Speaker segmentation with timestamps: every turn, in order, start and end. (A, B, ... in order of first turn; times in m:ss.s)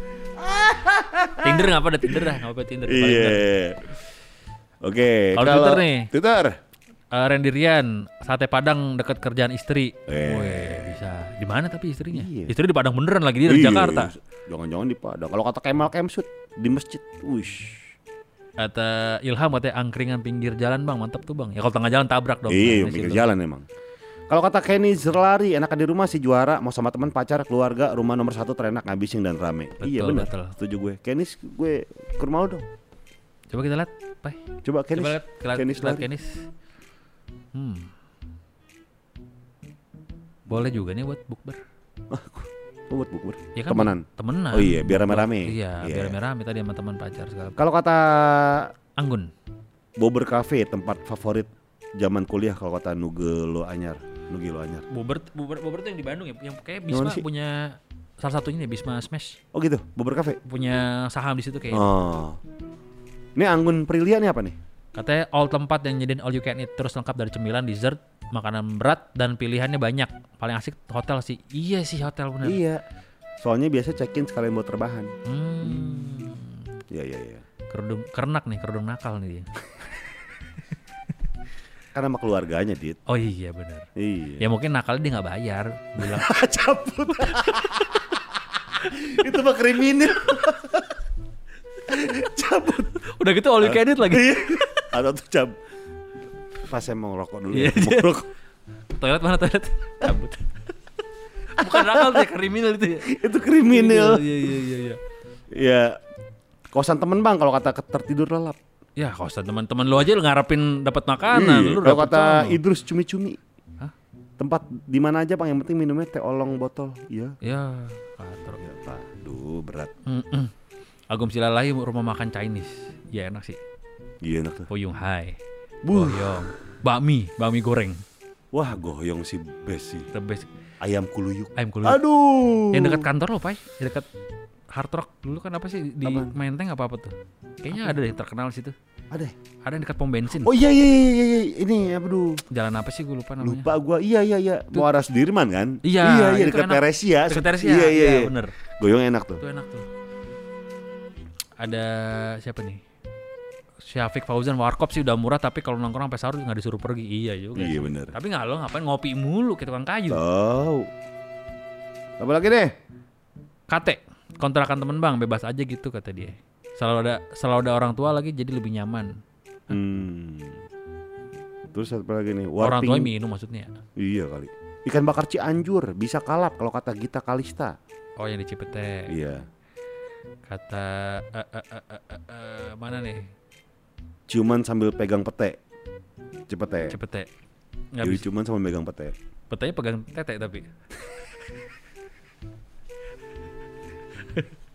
0:00.4-0:01.7 A
0:01.4-0:03.4 B
0:02.9-0:03.9 A
0:04.8-0:06.6 A
0:05.4-0:06.1 B
0:07.1-0:14.1 B
0:10.1-0:10.9 A
0:12.1-0:12.5 A
0:13.4-0:17.8 A
0:18.6-0:23.3 B
0:22.5-0:23.6 A
0:24.3-0:32.6 A
0:29.8-0:30.5 B
0:33.5-0:34.4 B
0:34.6-0:36.0 A
0:34.9-0:36.4 B
0:37.5-0:37.9 B
0:40.5-0:41.6 B
0:42.1-0:46.1 A
0:43.5-0:47.6 B
0:47.6-0:48.7 A
0:49.0-0:49.3 B
0:50.0-0:54.8 A
0:54.9-0:59.4 B
0:56.9-0:57.2 A
0:59.5-1:00.4 A
1:00.4-1:01.9 B
1:01.7-1:02.4 A
1:03.4-1:04.6 A
1:04.9-1:12.6 B
1:12.4-1:12.8 A
1:13.4-1:15.1 A
1:15.2-1:16.6 B
1:15.6-1:16.0 A
1:16.9-1:17.4 A
1:17.7-1:19.5 B
1:21.9-1:23.0 A
1:23.1-1:23.9 B
1:24.0-1:24.4 A
1:24.4-1:26.4 B
1:26.0-1:30.9 A
1:27.2-1:27.9 B
1:31.9-1:33.0 A
1:33.0-1:34.9 B
1:33.6-1:35.6 A
1:36.6-1:38.3 A
1:37.5-1:38.2 B
1:39.0-1:40.4 B
1:41.6-1:43.1 B
1:41.6-1:42.2 A
1:43.0-1:44.4 A
1:43.7-1:45.0 B
1:45.5-1:46.0 A
1:46.7-1:48.6 A
1:49.0-1:52.6 B
1:51.3-1:53.4 A
1:54.4-1:57.4 A
1:57.4-1:58.6 B
1:58.6-1:59.9 A
2:00.0-2:00.5 B
2:01.1-2:03.6 B
2:04.2-2:04.7 A
2:04.7-2:05.4 B
2:05.8-2:06.5 A
2:05.9-2:08.0 B
2:08.5-2:10.1 A
2:10.1-2:10.5 B
2:10.8-2:13.0 A
2:11.6-2:12.0 B
2:12.7-2:14.1 B
2:14.7-2:18.7 B
2:16.0-2:16.3 A
2:19.6-2:20.5 B
2:20.4-2:22.4 A
2:22.5-2:23.7 B
2:23.4-2:29.4 A
2:25.8-2:28.5 B
2:29.4-2:29.9 B
2:31.6-2:32.8 B
2:33.8-2:40.2 B
2:37.6-2:38.1 A
2:40.1-2:40.9 A
2:42.2-2:42.7 A
2:43.7-2:49.2 B
2:49.7-2:50.6 A
2:51.7-2:53.1 A
2:52.6-2:53.7 B
2:54.0-2:57.8 A
2:58.2-2:59.1 B
2:59.1-2:59.4 A
3:00.5-3:03.3 B
3:04.3-3:05.6 A
3:06.5-3:07.0 A
3:06.9-3:07.3 B
3:07.9-3:08.2 B
3:08.0-3:09.1 A
3:09.5-3:10.7 B